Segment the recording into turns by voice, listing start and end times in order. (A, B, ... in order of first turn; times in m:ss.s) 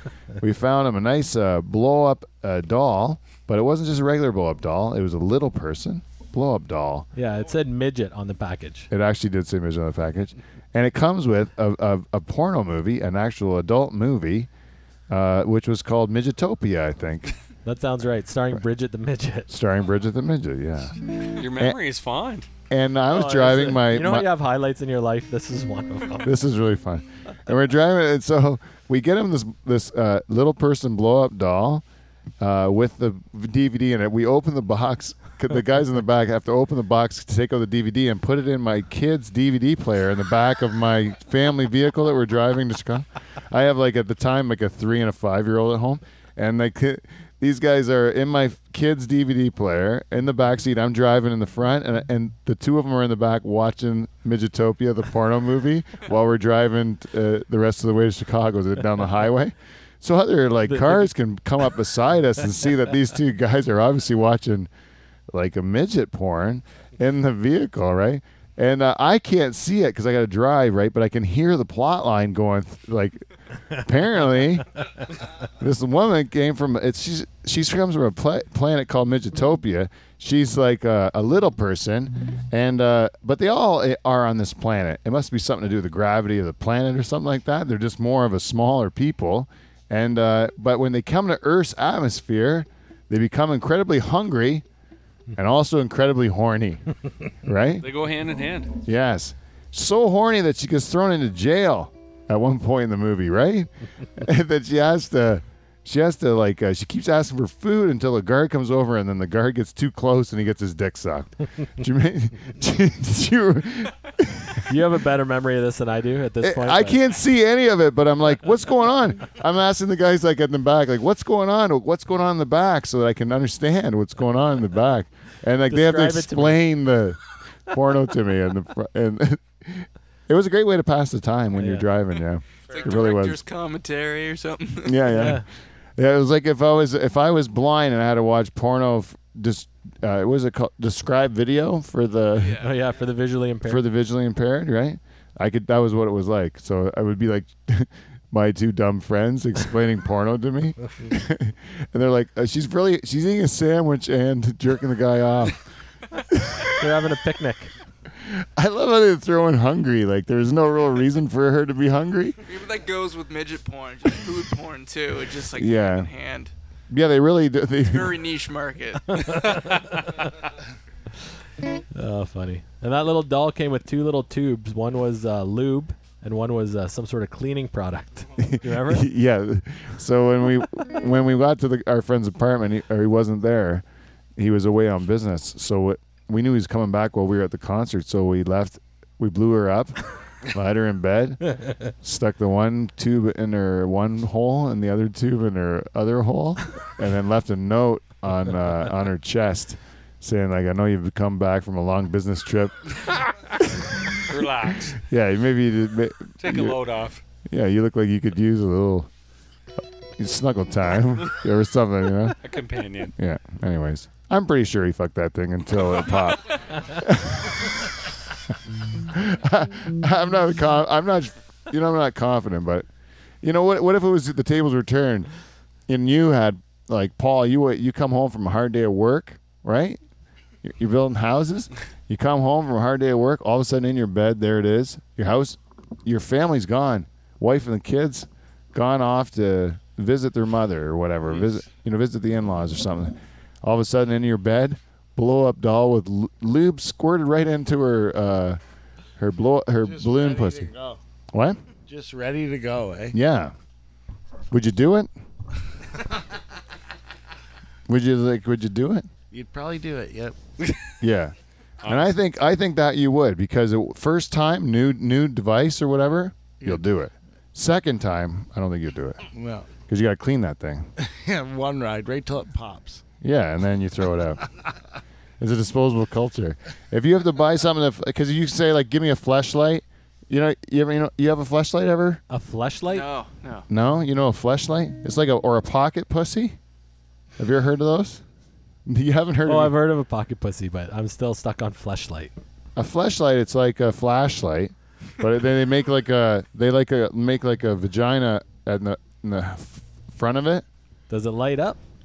0:00.4-0:07.1 A
0:07.1-0:08.9 B
0:08.9-0:14.5 A
0:15.1-0:17.3 A
0:17.6-0:19.5 B
0:19.5-0:20.9 A
0:21.3-0:22.5 C
0:22.7-0:24.3 A
0:23.1-0:26.4 B
0:26.2-0:31.8 A
0:32.4-1:04.7 A
1:05.3-1:13.2 A
1:13.7-1:14.8 A
1:15.6-1:34.6 A
1:35.4-1:36.8 A
1:37.4-1:37.9 A
1:37.8-1:38.7 C
1:38.8-1:54.7 A
1:54.7-1:57.0 B
1:56.4-2:13.4 A
2:05.7-2:06.6 B
2:11.6-2:11.8 B
2:12.7-2:13.0 C
2:12.7-2:15.2 D
2:14.8-2:15.4 A
2:15.1-2:15.4 B
2:16.0-2:22.6 A
2:22.3-2:22.9 D
2:22.6-2:23.8 B
2:23.6-2:35.6 A
2:36.3-2:36.7 A
2:36.8-2:37.7 B
2:38.2-2:42.4 A
2:42.4-2:46.5 D
2:45.6-2:46.1 A
2:46.9-2:48.2 A
2:47.8-2:49.4 D
2:49.2-2:50.1 B
2:49.2-2:50.0 C
2:51.9-2:59.0 B
2:58.4-3:03.8 A
3:04.4-3:22.8 A
3:24.1-3:25.0 C
3:25.0-3:26.8 A
3:26.4-3:27.2 C
3:27.4-3:29.1 A
3:30.2-3:32.4 A
3:32.4-3:33.1 C
3:33.2-3:37.8 A
3:39.1-3:42.9 A
3:43.4-3:45.3 A
3:45.9-3:50.0 A
3:50.6-4:08.6 A
4:09.2-4:10.7 A
4:09.8-4:11.0 E
4:11.3-4:11.6 A
4:11.9-4:13.2 E
4:13.1-4:13.5 A
4:14.5-4:15.1 A
4:17.9-4:19.1 A
4:19.3-4:20.4 E
4:21.0-4:29.2 A
4:21.8-4:22.1 C
4:29.3-4:29.7 E
4:29.8-4:30.9 A
4:31.0-4:33.0 E
4:33.2-4:34.4 A
4:35.4-4:42.2 A
4:42.3-4:43.0 B
4:42.9-4:43.6 D
4:43.7-4:46.6 A
4:47.4-4:48.2 A
4:48.8-4:49.8 A
4:49.4-4:52.3 B
4:52.8-5:00.6 A
5:01.1-5:01.8 B